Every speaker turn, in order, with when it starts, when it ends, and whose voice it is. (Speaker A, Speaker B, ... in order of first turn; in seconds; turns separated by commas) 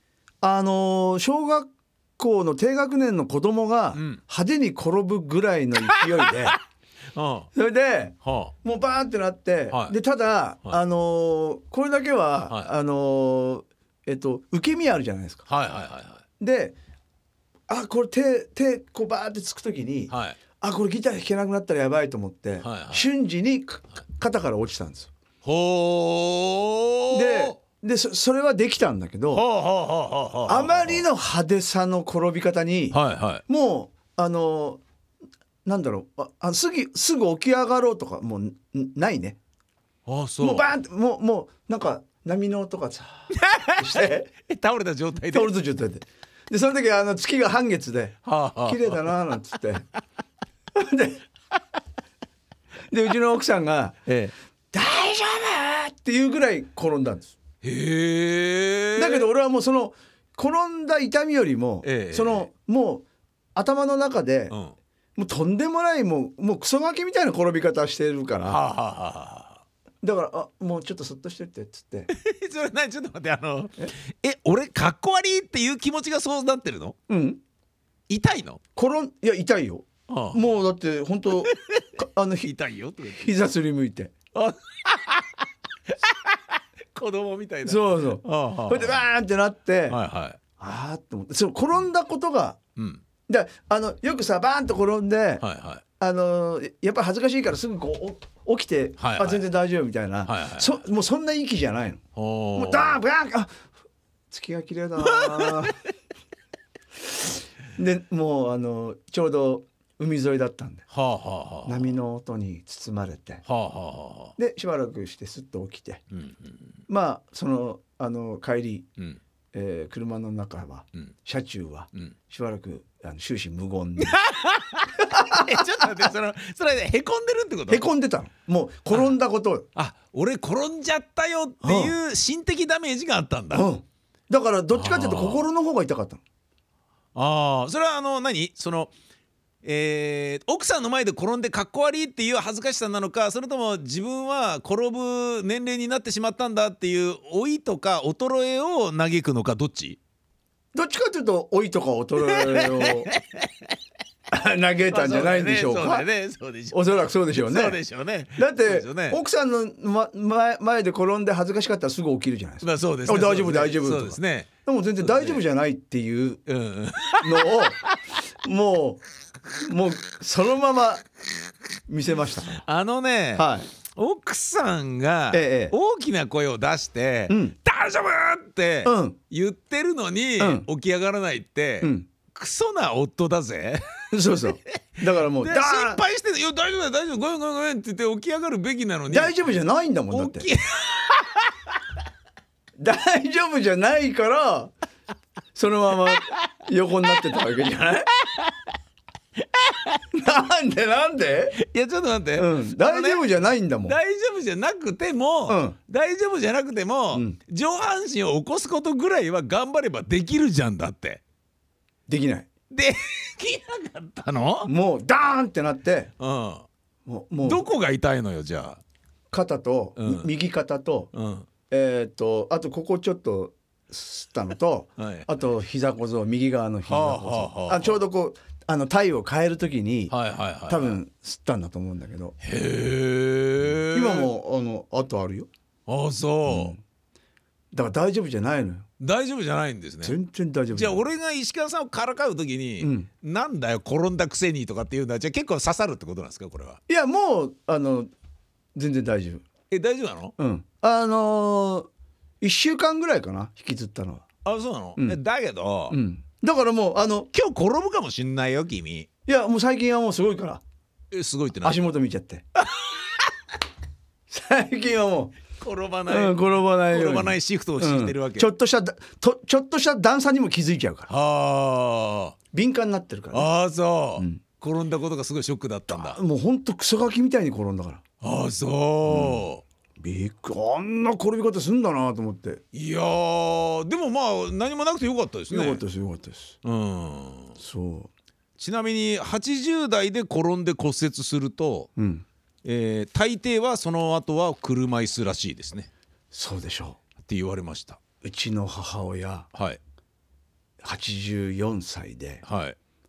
Speaker A: 0.4-6.6, Speaker B: 3.9-4.2, Speaker B: 6.0-6.6, Speaker B: 7.1-7.5, Speaker A: 7.5-15.4, Speaker B: 8.2-8.5, Speaker B: 9.7-9.9, Speaker B: 15.5-16.2, Speaker A: 16.4-16.8, Speaker A: 17.7-25.1, Speaker B: 20.1-20.4, Speaker B: 22.6-23.1, Speaker B: 25.4-27.6, Speaker A: 27.1-29.4, Speaker B: 29.3-31.0, Speaker A: 30.5-34.8, Speaker B: 32.9-33.4, Speaker A: 35.6-39.4, Speaker B: 40.0-40.7, Speaker A: 40.4-44.3, Speaker B: 43.3-45.5, Speaker A: 45.3-49.9, Speaker B: 48.2-49.1, Speaker A: 50.7-51.2, Speaker A: 52.9-54.0, Speaker B: 54.0-54.3, Speaker A: 54.7-57.3, Speaker B: 57.6-59.3, Speaker A: 59.0-64.5, Speaker B: 61.8-62.5, Speaker B: 64.5-64.7, Speaker A: 65.2-68.6, Speaker B: 68.4-69.6, Speaker A: 70.0-72.1, Speaker B: 72.1-77.0, Speaker A: 77.1-77.4, Speaker B: 78.1-78.6, Speaker A: 78.8-82.5, Speaker B: 80.1-80.4, Speaker B: 81.4-83.3, Speaker A: 83.1-84.1, Speaker B: 84.3-89.0, Speaker A: 87.6-90.0, Speaker B: 89.9-90.4, Speaker A: 90.6-92.6, Speaker B: 92.8-93.0, Speaker A: 93.3-95.4, Speaker B: 95.4-95.8, Speaker A: 96.0-102.0, Speaker B: 99.0-99.4, Speaker B: 100.2-100.8, Speaker B: 102.2-103.0, Speaker A: 102.5-103.6, Speaker A: 104.3-105.8, Speaker B: 105.0-105.7, Speaker A: 107.8-110.8, Speaker B: 110.9-111.9, Speaker A: 111.6-113.4, Speaker B: 113.4-114.3, Speaker A: 114.4-116.0, Speaker B: 116.1-116.6, Speaker A: 116.9-118.9, Speaker A: 119.5-124.2, Speaker B: 124.0-127.8, Speaker A: 125.0-125.8, Speaker A: 127.7-129.7, Speaker B: 129.7-133.7, Speaker A: 131.6-131.9, Speaker A: 133.5-136.2, Speaker B: 134.7-135.4, Speaker B: 137.1-138.9, Speaker B: 139.6-150.0, Speaker A: 150.7-153.1, Speaker B: 152.2-153.7, Speaker A: 154.3-156.1, Speaker B: 154.9-159.2, Speaker A: 156.7-157.8, Speaker A: 158.3-166.4, Speaker B: 162.6-165.4, Speaker B: 166.5-168.0, Speaker A: 167.2-167.8, Speaker A: 168.4-169.0, Speaker A: 169.6-171.0, Speaker A: 171.9-172.6, Speaker B: 172.6-183.8, Speaker A: 173.3-173.7, Speaker A: 175.3-175.7, Speaker A: 177.3-177.6, Speaker A: 178.8-179.2, Speaker A: 180.4-180.7, Speaker A: 181.8-182.1, Speaker A: 184.1-186.0, Speaker B: 185.0-189.3, Speaker A: 189.1-190.5, Speaker B: 190.1-191.8, Speaker A: 192.8-194.7, Speaker A: 195.5-198.1, Speaker B: 198.2-198.7, Speaker B: 199.4-200.0, Speaker A: 200.1-201.6, Speaker B: 201.6-203.3, Speaker A: 202.3-204.0, Speaker B: 203.8-211.2, Speaker A: 205.5-205.8, Speaker A: 207.1-207.4, Speaker A: 212.1-212.5, Speaker B: 212.7-214.7, Speaker A: 214.6-216.1, Speaker B: 216.2-216.7, Speaker A: 217.1-217.7, Speaker B: 217.4-218.8, Speaker A: 219.3-221.1, Speaker B: 220.0-220.3, Speaker B: 221.1-221.5, Speaker A: 221.7-230.1, Speaker B: 225.0-225.3, Speaker B: 226.8-228.0, Speaker B: 230.1-231.0, Speaker A: 230.7-232.3, Speaker B: 232.4-234.3, Speaker A: 233.9-235.5, Speaker B: 235.9-236.7, Speaker A: 236.5-236.8, Speaker A: 237.7-238.9, Speaker B: 239.0-240.2, Speaker A: 240.0-241.0, Speaker B: 240.7-246.8, Speaker A: 242.8-243.1, Speaker A: 246.9-248.1, Speaker A: 248.7-249.4, Speaker B: 249.7-250.3, Speaker A: 250.4-251.9, Speaker A: 252.4-254.2, Speaker B: 254.4-256.0, Speaker A: 255.9-257.3, Speaker B: 257.3-259.1, Speaker A: 259.2-260.6, Speaker B: 261.1-261.8, Speaker A: 261.6-262.4, Speaker B: 262.6-263.2, Speaker A: 264.3-265.4, Speaker B: 265.6-268.5, Speaker A: 266.1-271.1, Speaker B: 271.1-272.4, Speaker A: 272.5-273.5, Speaker B: 273.3-276.2, Speaker A: 274.2-274.4, Speaker A: 275.9-278.0, Speaker B: 278.2-279.6, Speaker A: 279.1-279.5, Speaker A: 280.0-282.6, Speaker B: 282.7-285.8, Speaker A: 285.5-286.6, Speaker B: 286.6-287.6, Speaker A: 287.6-288.1, Speaker B: 288.6-291.9, Speaker A: 291.9-292.2, Speaker B: 292.6-295.9, Speaker A: 296.3-297.0, Speaker B: 297.2-298.0, Speaker A: 298.2-299.5, Speaker B: 299.5-299.8, Speaker A: 300.8-302.4, Speaker B: 302.4-302.8